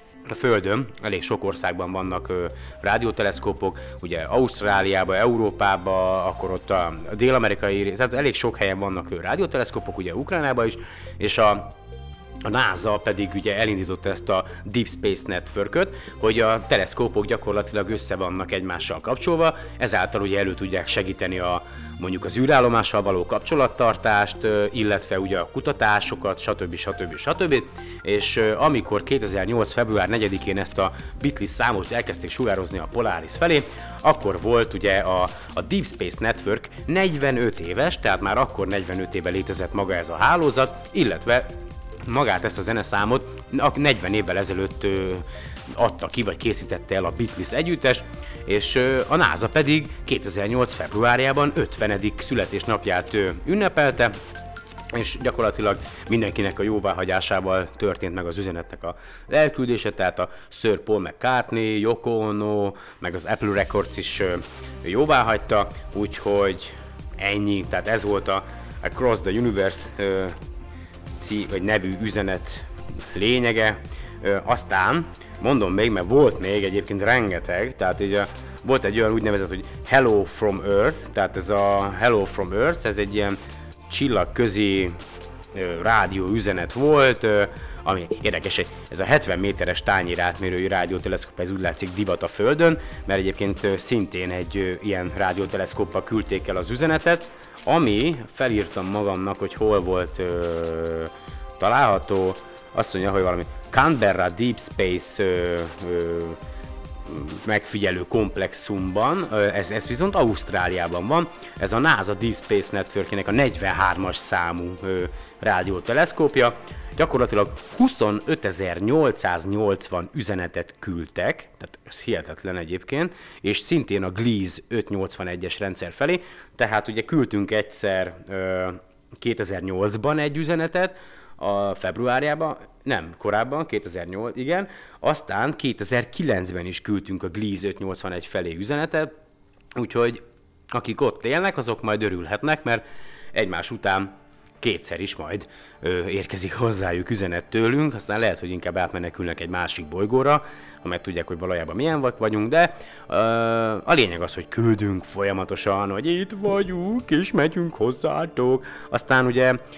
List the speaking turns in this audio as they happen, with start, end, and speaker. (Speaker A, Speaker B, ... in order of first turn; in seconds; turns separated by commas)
Speaker A: 0.3-11.7, Speaker A: 12.4-41.5, Speaker A: 42.0-54.2, Speaker A: 54.9-70.3, Speaker A: 71.2-85.0, Speaker A: 85.5-106.4, Speaker A: 107.0-139.1, Speaker A: 139.8-140.2, Speaker A: 140.7-159.6